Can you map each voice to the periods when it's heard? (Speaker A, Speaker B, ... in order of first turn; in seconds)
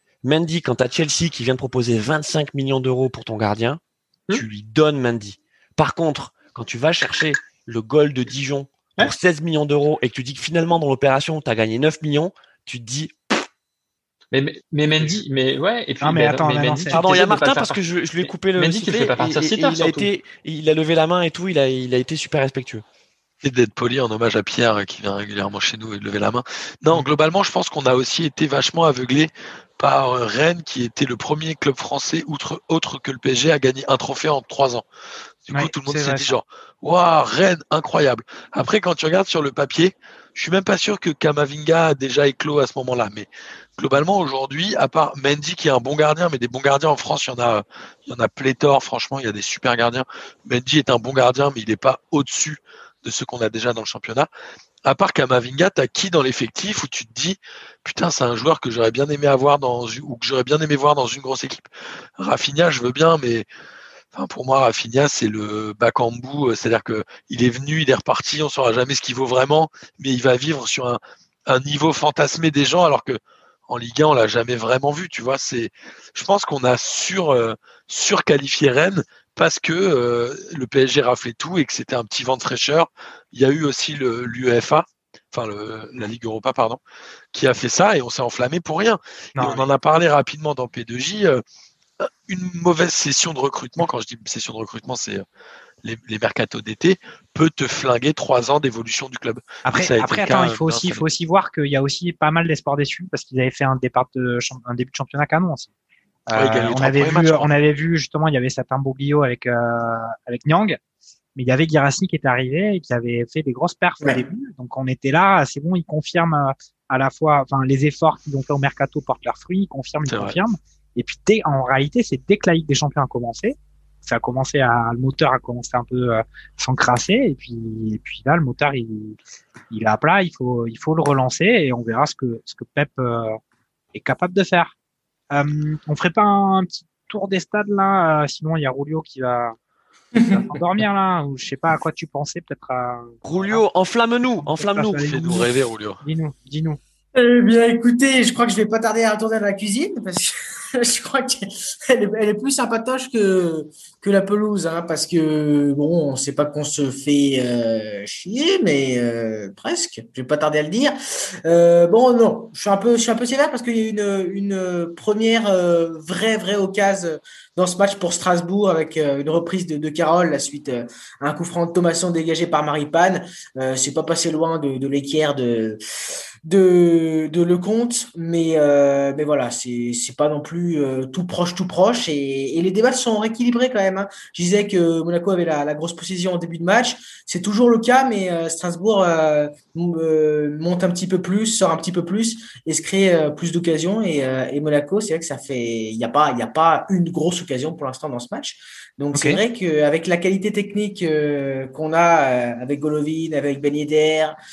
Speaker A: 0.2-3.8, 4.3-13.2, 16.9-22.8, 143.2-145.1
Speaker B: 14.3-20.1
Speaker C: 16.0-17.3, 35.5-36.4, 89.4-89.7, 99.7-105.7, 106.3-110.8, 111.4-129.2, 129.7-133.4, 133.9-134.7, 135.3-139.6, 140.3-143.6, 144.4-145.5, 146.0-146.8, 199.1-199.4
Speaker D: 23.4-34.9, 35.5-54.3, 54.9-61.6, 62.2-63.5, 64.1-86.8, 87.3-91.4, 92.0-95.2, 95.8-101.0, 106.3-107.5, 120.1-120.4, 145.1-146.0
Speaker E: 140.2-140.5, 147.2-175.8, 176.4-204.4